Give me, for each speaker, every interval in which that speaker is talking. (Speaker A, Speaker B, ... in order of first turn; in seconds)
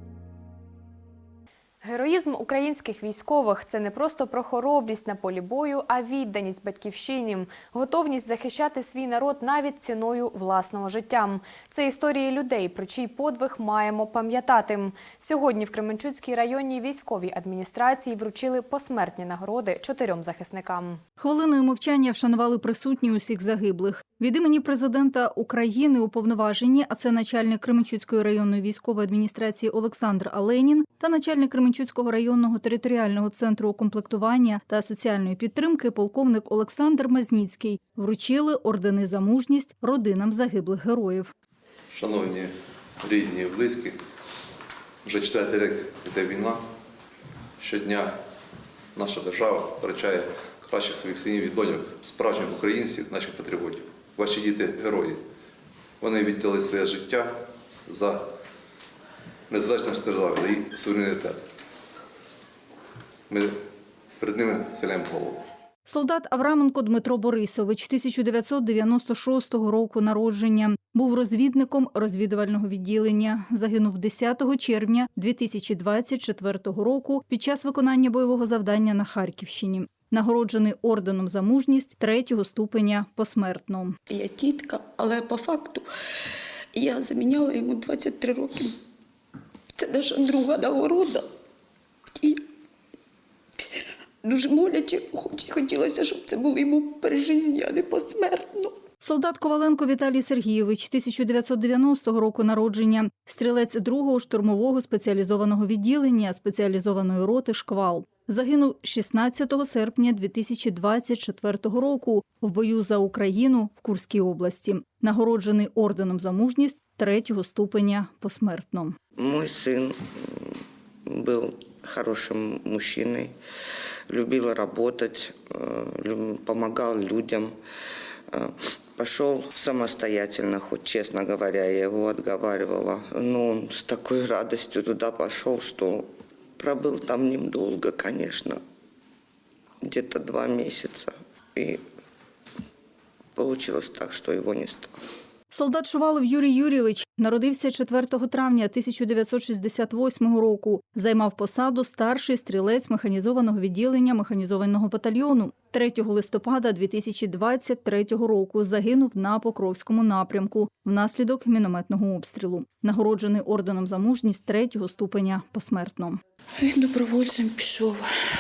Speaker A: 1.8-21.0
Speaker B: 21.2-41.3, 65.9-84.0, 99.0-119.0, 145.5-166.2
Speaker C: 41.9-44.0, 45.0-46.6, 47.6-48.2, 49.0-55.2, 56.0-57.3, 57.9-58.2, 59.5-61.4, 63.3-63.6, 64.2-65.5
Speaker D: 84.2-85.8, 86.8-88.7, 89.8-91.2, 94.3-98.7, 166.6-168.0
Speaker E: 119.2-120.5, 121.1-123.3, 124.1-127.5, 128.3-136.1, 136.6-138.6, 139.8-141.8, 143.4-144.9